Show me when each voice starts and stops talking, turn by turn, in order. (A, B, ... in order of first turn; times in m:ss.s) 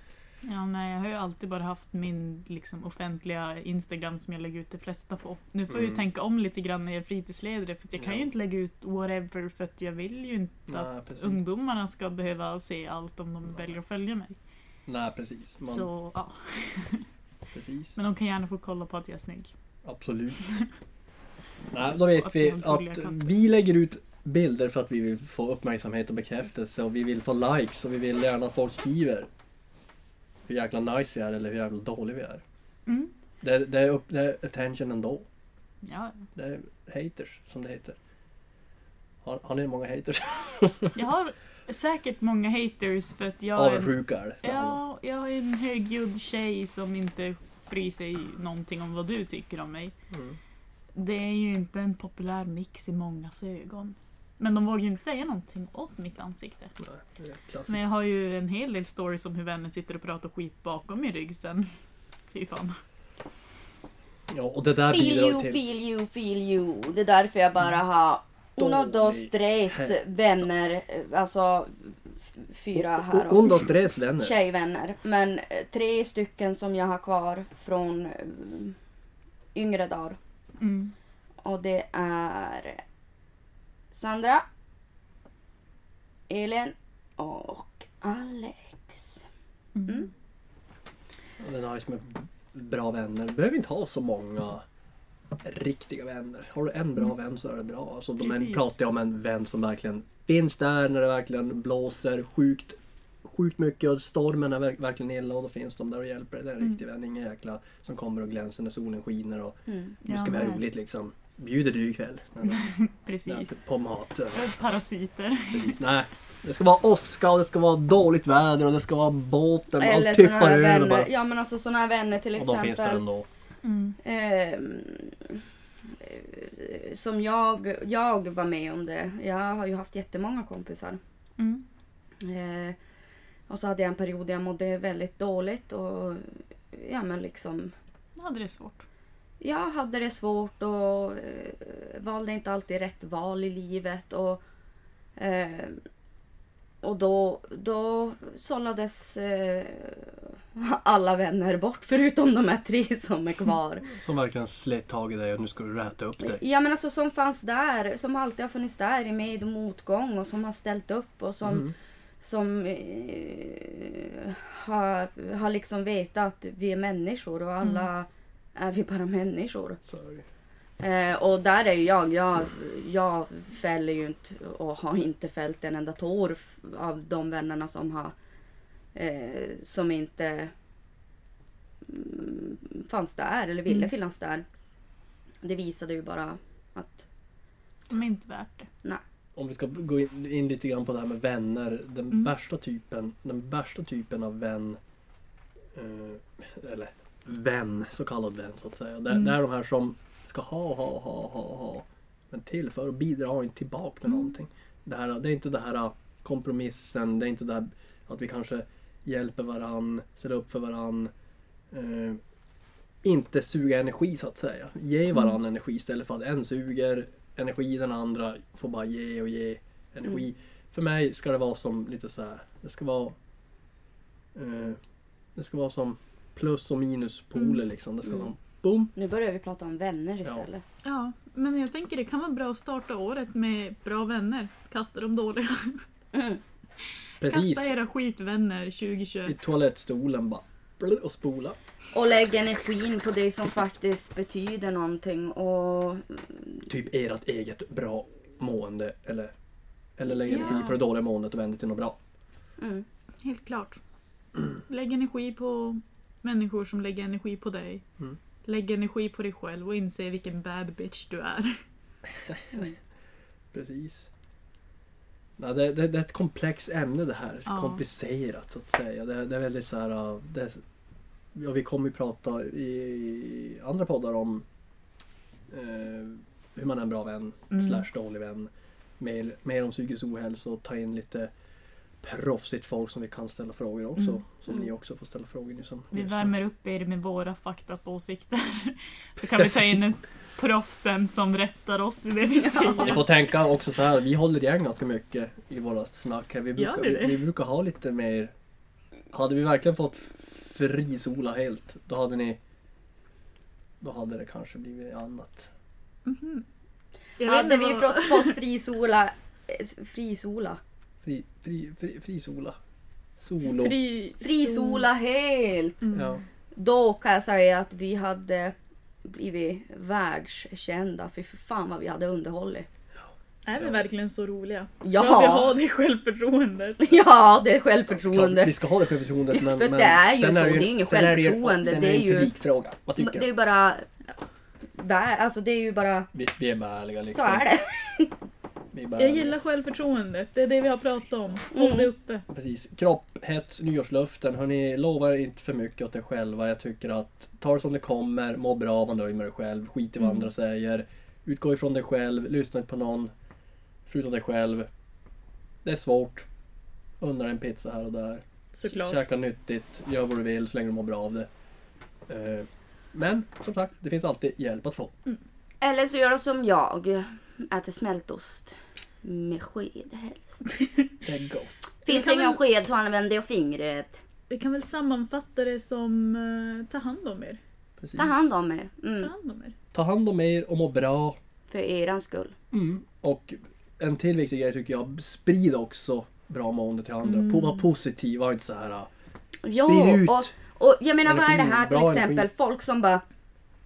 0:00.4-0:14.4 A
0:05.7-0:06.0 B
0:08.0-0:08.3 B
0:10.7-0:11.4 B
0:14.9-0:15.9 B
0:15.6-0:17.0 A
0:17.5-0:18.0 B
0:18.0-0:19.5 A
0:19.8-0:20.6 B
0:21.7-0:29.3 B
0:22.0-0:23.3 A
0:30.5-0:32.4 B
0:33.4-0:35.2 B
0:35.8-0:36.2 A
0:36.3-0:38.0 B
0:39.2-0:41.0 B
0:40.9-0:50.0 A
0:43.5-0:44.8 B
0:50.1-0:50.4 B
0:50.9-0:56.7 A
0:56.8-0:57.8 B
0:57.7-1:01.7 A
1:02.3-1:02.8 A
1:04.3-1:05.6 B
1:04.9-1:13.7 C
1:08.6-1:10.5 B
1:12.7-1:14.3 B
1:14.2-1:18.8 C
1:19.5-1:20.2 C
1:20.6-1:20.9 A
1:21.4-1:22.8 C
1:23.9-1:24.4 C
1:26.3-1:29.2 C
1:29.7-1:30.1 A
1:31.4-1:34.6 B
1:35.4-1:52.6 B
1:38.2-1:38.7 A
1:49.7-1:50.0 C
1:50.0-1:50.6 A
1:52.4-1:53.6 A
1:53.2-1:54.5 B
1:54.3-1:55.8 A
1:55.5-2:01.1 B
1:59.8-2:03.0 C
2:02.4-2:03.3 B
2:03.6-2:04.0 A
2:04.0-2:05.4 C
2:06.0-2:11.0 C
2:11.4-2:11.6 A
2:12.2-2:12.8 C
2:13.5-2:17.7 C
2:18.2-2:18.8 A
2:19.4-2:24.4 C
2:25.2-2:25.8 C
2:26.8-2:33.9 C
2:33.8-2:36.4 B
2:36.2-2:41.7 C
2:41.4-2:41.7 B
2:42.2-2:49.8 C
2:47.6-2:47.9 A
2:49.9-2:50.2 B
2:50.8-2:58.1 C
2:58.9-3:00.5 C
3:01.8-3:04.4 C
3:03.7-3:03.9 A
3:05.4-3:07.1 C
3:07.9-3:08.7 A
3:09.4-3:14.8 B
3:15.7-3:31.1 B
3:24.1-3:24.3 A
3:31.7-3:32.2 B
3:33.0-3:43.1 B
3:44.3-3:44.8 B
3:45.4-3:48.9 B
3:49.0-3:50.6 C
3:50.8-3:55.8 A
3:56.1-3:56.4 C
3:57.2-3:57.7 B
3:57.2-3:59.4 A
3:59.2-4:01.6 B
4:01.9-4:06.6 C
4:06.7-4:09.3 B
4:10.0-4:12.0 B
4:10.1-4:10.7 C
4:10.3-4:10.7 A
4:12.6-4:12.8 C
4:13.2-4:13.8 A
4:14.7-4:17.8 A
4:18.4-4:21.6 A
4:22.2-4:22.7 B
4:23.5-4:24.1 B
4:25.4-4:30.6 B
4:27.5-4:27.8 A
4:31.3-4:34.4 B
4:35.5-4:41.3 B
4:37.5-4:37.8 A
4:42.0-4:46.3 B
4:45.9-4:53.0 A
4:49.4-4:49.8 B
4:52.3-4:53.0 C
4:52.8-4:58.3 B
4:56.6-4:57.2 A
4:59.1-5:02.4 B
5:03.8-5:05.5 B
5:06.0-5:06.4 A
5:07.2-5:08.3 A
5:07.2-5:10.6 C
5:11.0-5:12.6 B
5:13.2-5:13.8 B
5:13.4-5:14.8 A
5:14.2-5:15.8 C
5:15.8-5:16.2 A
5:15.9-5:16.2 B
5:16.6-5:22.7 C
5:23.4-5:27.0 A
5:23.5-5:23.8 B
5:24.8-5:25.5 C
5:26.8-5:28.5 C
5:28.0-5:33.2 B
5:29.3-5:32.3 C
5:33.0-5:33.9 C
5:34.7-5:36.1 C
5:36.1-5:37.5 B
5:37.1-5:38.1 C
5:38.7-5:39.4 B
5:38.9-5:42.2 A
5:41.5-5:41.9 C
5:42.3-5:53.1 B
5:50.0-5:50.3 A
5:53.8-5:54.7 B
5:55.6-5:56.3 B
5:57.0-6:01.3 B
5:58.5-5:59.0 A
6:02.1-6:04.9 B
6:05.6-6:10.4 C
6:10.5-6:10.9 A
6:11.0-6:11.5 B
6:11.8-6:14.0 C
6:11.9-6:12.4 A
6:14.3-6:17.4 A
6:17.8-6:18.2 B
6:18.0-6:19.1 C
6:19.0-6:19.5 A
6:19.7-6:21.2 B
6:21.5-6:22.4 C
6:22.5-6:28.9 B
6:27.0-6:27.6 A
6:29.4-6:33.0 C
6:29.5-6:30.3 B
6:31.0-6:32.3 B